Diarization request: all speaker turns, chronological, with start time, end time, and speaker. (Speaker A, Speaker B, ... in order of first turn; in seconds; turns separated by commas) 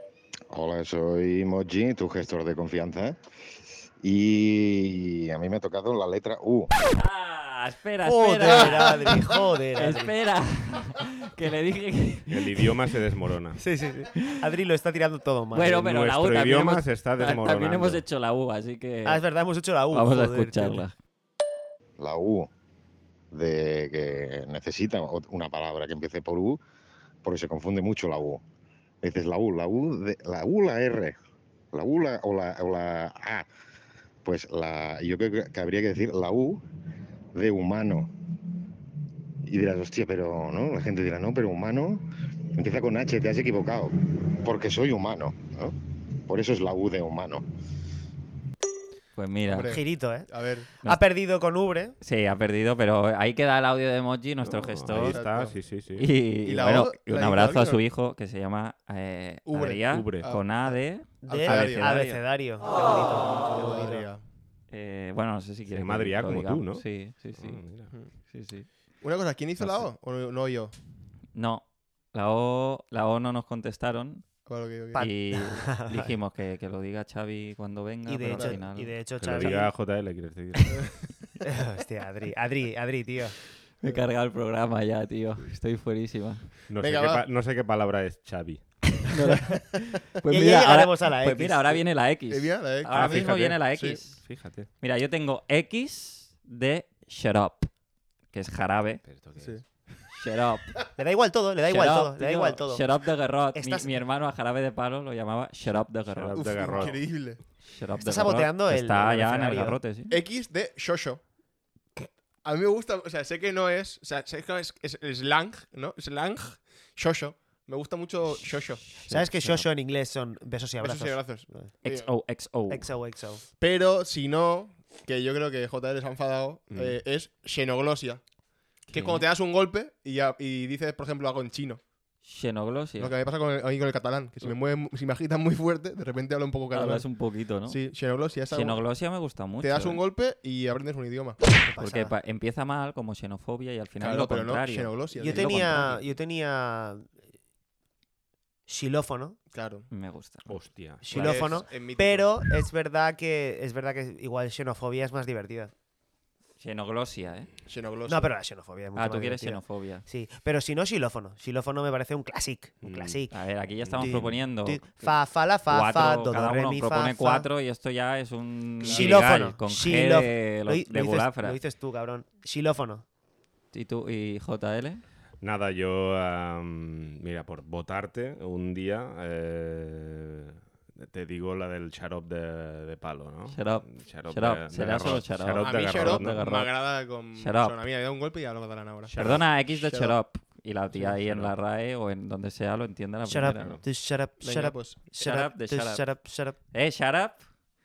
Speaker A: 0.5-3.2, Speaker A: 4.0-6.7, Speaker B: 6.8-12.7, Speaker C: 8.0-10.1, Speaker D: 12.3-13.6, Speaker C: 13.6-15.9, Speaker B: 15.5-19.2, Speaker D: 15.8-18.0, Speaker C: 19.0-20.8, Speaker B: 19.9-20.9, Speaker A: 22.0-22.5, Speaker A: 23.3-26.6, Speaker A: 27.2-28.4, Speaker A: 29.0-31.2, Speaker A: 31.7-33.5, Speaker A: 34.2-36.6, Speaker A: 37.3-38.1, Speaker A: 39.5-45.8, Speaker A: 46.3-47.4, Speaker B: 49.1-49.7, Speaker E: 49.5-50.7, Speaker C: 49.7-52.0, Speaker B: 52.0-55.2, Speaker D: 54.4-56.1, Speaker E: 54.9-55.5, Speaker B: 56.0-62.2, Speaker E: 56.4-57.8, Speaker E: 59.5-62.0, Speaker D: 59.9-60.3, Speaker C: 61.2-64.1, Speaker E: 63.4-64.2, Speaker B: 64.7-67.6, Speaker D: 65.7-67.9, Speaker B: 68.1-68.7, Speaker E: 69.0-70.7, Speaker B: 69.6-69.8, Speaker B: 71.3-74.3, Speaker E: 74.5-75.0, Speaker C: 74.9-76.1, Speaker B: 74.9-78.9, Speaker C: 78.0-79.7, Speaker E: 78.3-78.6, Speaker D: 79.2-81.1, Speaker C: 81.4-83.3, Speaker B: 83.8-86.5, Speaker D: 86.7-89.0, Speaker E: 86.8-87.2, Speaker B: 89.1-94.2, Speaker C: 90.3-91.8, Speaker E: 92.3-94.0, Speaker D: 92.9-94.7, Speaker B: 94.8-97.7, Speaker B: 98.3-99.0, Speaker D: 99.0-99.6, Speaker E: 99.4-99.6, Speaker B: 100.1-100.7, Speaker C: 101.0-102.8, Speaker B: 101.7-106.5, Speaker C: 103.5-103.9, Speaker D: 105.7-107.0, Speaker E: 106.3-107.4, Speaker B: 107.6-110.2, Speaker C: 108.0-109.8, Speaker E: 110.1-111.2, Speaker E: 112.4-118.8, Speaker B: 118.8-119.7, Speaker C: 119.1-121.7, Speaker E: 120.8-122.1, Speaker B: 121.8-122.9, Speaker C: 122.7-123.4, Speaker E: 123.6-128.2, Speaker B: 128.9-129.2, Speaker E: 128.9-131.8, Speaker B: 132.2-133.2, Speaker E: 133.0-137.1, Speaker B: 136.7-137.8, Speaker E: 137.6-138.8, Speaker B: 138.5-140.0, Speaker E: 139.6-141.4, Speaker C: 141.6-142.2, Speaker B: 141.8-146.0, Speaker E: 144.0-145.9, Speaker C: 145.2-147.1, Speaker C: 148.7-149.4, Speaker E: 149.5-149.9, Speaker B: 149.9-150.5, Speaker D: 150.5-151.3, Speaker C: 151.0-155.7, Speaker E: 151.1-152.3, Speaker B: 156.6-157.5, Speaker E: 157.7-158.3, Speaker C: 158.1-163.3, Speaker B: 158.9-160.1, Speaker D: 162.8-163.2, Speaker B: 163.3-165.1, Speaker D: 163.8-164.3, Speaker C: 164.0-167.5, Speaker B: 165.7-171.6, Speaker E: 168.8-169.2, Speaker C: 168.8-173.0, Speaker B: 173.7-175.0, Speaker D: 175.4-186.4, Speaker B: 183.5-186.7, Speaker E: 185.6-190.2, Speaker B: 187.3-187.8, Speaker D: 189.1-189.5, Speaker B: 189.2-193.8, Speaker D: 191.0-191.5, Speaker C: 193.2-196.6, Speaker D: 193.5-193.8, Speaker E: 194.4-195.0, Speaker B: 195.2-196.1, Speaker B: 196.7-197.4